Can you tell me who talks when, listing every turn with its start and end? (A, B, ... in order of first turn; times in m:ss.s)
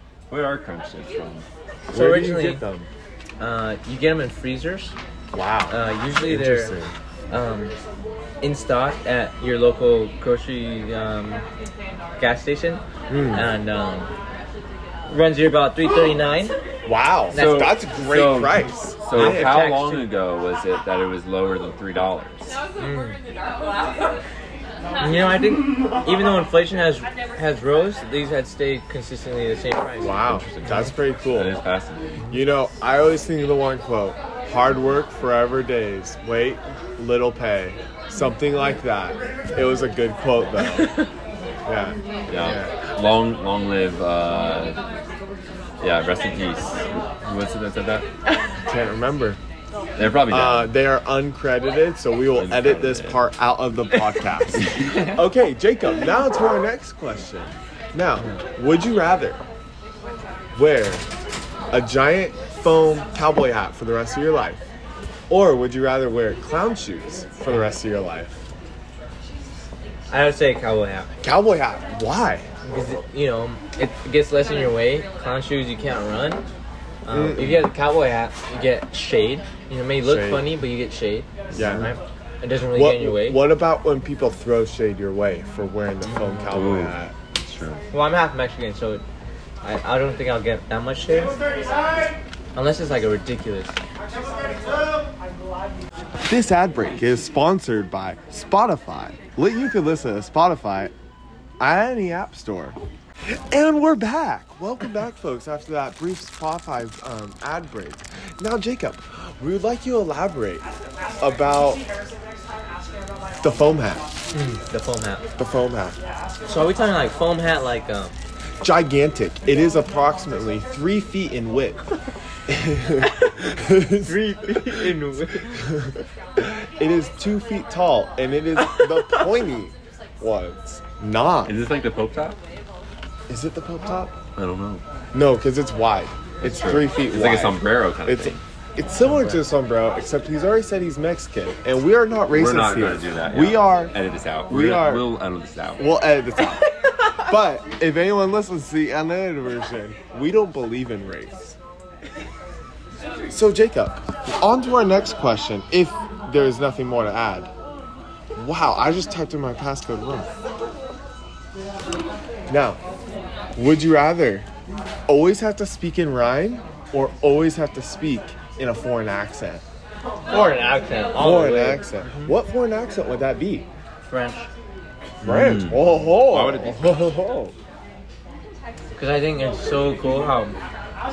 0:00.3-0:01.5 A
0:01.9-0:02.9 B
0:01.9-0:02.7 C
0:03.4-0:05.0 C
0:05.3-0:06.9 B
0:05.7-0:06.8 C
0:07.3-0:07.8 C
0:08.4-0:11.4 C
0:12.2-0:14.1 C
0:13.1-0:13.5 B
0:15.1-0:16.6 C
0:16.8-0:19.6 B
0:17.3-0:22.6 A
0:17.3-0:17.7 C
0:19.1-0:20.1 C
0:22.8-0:23.2 C
0:25.0-0:30.9 C
0:30.0-0:31.6 B
0:31.2-0:32.3 A
0:32.3-0:40.9 B
0:41.7-0:42.8 B
0:42.3-0:44.8 A
0:45.8-0:48.1 A
0:48.7-0:49.4 B
0:50.0-0:50.8 A
0:50.3-0:59.4 B
0:52.3-0:53.2 A
0:54.8-0:55.0 A
1:00.6-1:01.1 B
1:01.7-1:04.6 B
1:05.3-1:08.4 B
1:10.1-1:11.1 C
1:11.2-1:12.4 B
1:12.6-1:16.5 C
1:17.0-1:23.5 C
1:17.1-1:17.7 B
1:20.0-1:20.6 B
1:21.6-1:21.9 B
1:22.7-1:27.1 B
1:26.0-1:26.4 C
1:26.5-1:27.8 A
1:27.9-1:29.0 C
1:29.6-1:31.4 C
1:32.6-1:33.8 C
1:36.3-1:40.9 B
1:41.6-1:42.8 B
1:43.5-1:50.7 B
1:51.2-1:51.8 B
1:53.4-1:54.1 B
1:54.3-1:55.3 C
1:55.4-1:56.0 B
1:56.5-1:58.2 C
1:58.6-2:01.8 B
2:02.5-2:04.9 B
2:04.0-2:05.6 C
2:05.5-2:11.6 B
2:11.4-2:12.4 A
2:13.3-2:14.2 B
2:14.4-2:14.8 A
2:15.1-2:24.0 B
2:16.4-2:18.4 A
2:19.0-2:19.4 C
2:22.3-2:25.9 A
2:24.5-2:25.1 B
2:25.8-2:31.6 B
2:33.3-2:37.5 B
2:38.4-2:40.3 B
2:42.5-2:42.8 B
2:43.6-2:44.5 B
2:45.1-2:49.6 B
2:50.3-2:52.4 C
2:51.2-2:53.7 B
2:54.1-2:54.5 C
2:55.2-2:57.6 B
2:55.2-2:57.2 A
2:59.0-3:00.6 C